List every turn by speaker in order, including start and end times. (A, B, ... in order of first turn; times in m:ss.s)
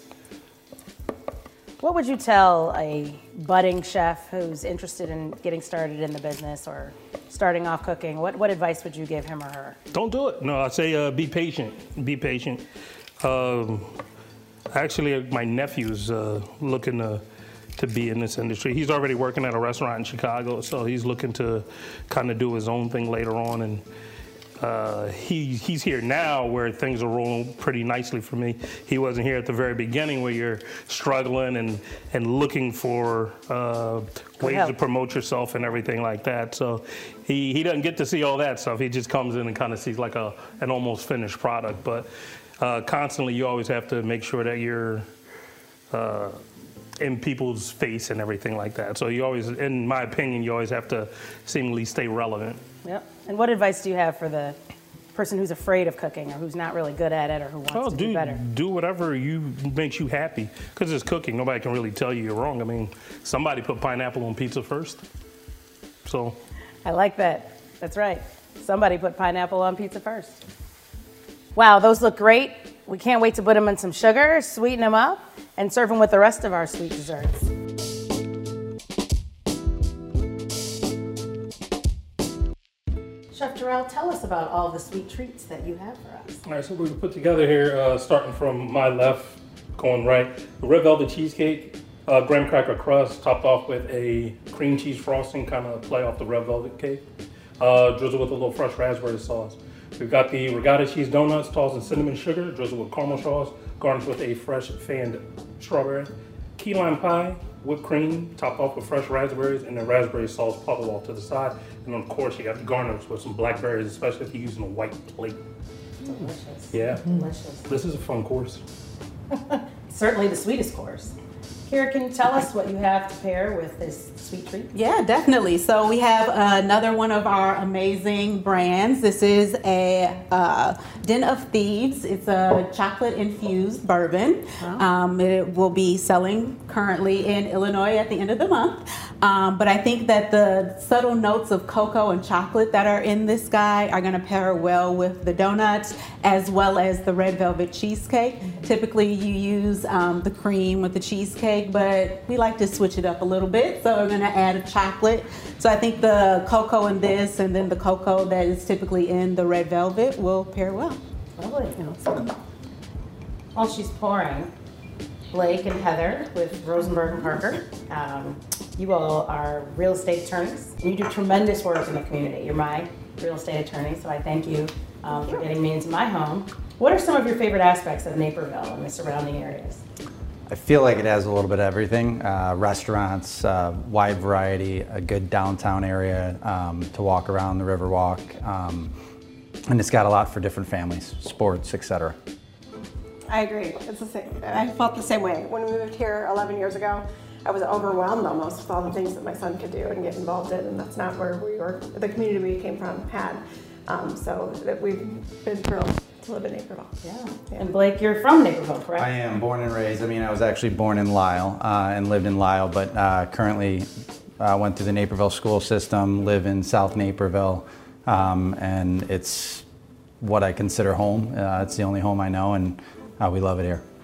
0:01.8-0:09.8 A
0:09.9-0:12.6 B
0:13.2-0:14.0 B
0:14.7-0:17.2 B
0:17.8-0:23.8 B
0:24.6-0:42.1 B
0:34.4-0:34.7 A
0:42.6-0:45.1 B
0:45.9-0:46.4 B
0:47.0-0:52.6 B
0:52.8-0:54.6 A
0:55.1-0:58.4 A
0:57.7-1:05.0 B
1:06.0-1:06.4 B
1:06.8-1:10.4 A
1:11.6-1:17.5 A
1:23.3-1:26.4 A
1:26.4-1:37.0 B
1:37.6-1:55.4 B
1:56.0-1:57.6 A
1:56.7-1:58.6 B
1:59.3-2:01.1 A
2:01.7-2:04.7 A
2:04.7-2:41.0 C
2:41.4-2:41.9 A
2:43.5-2:44.5 A
2:45.3-2:59.8 A
3:00.5-3:08.9 D
3:09.7-3:12.2 D
3:13.3-3:23.4 E
3:23.9-3:26.9 E
3:27.0-3:29.1 A
3:29.0-3:39.6 D
3:40.2-3:43.8 D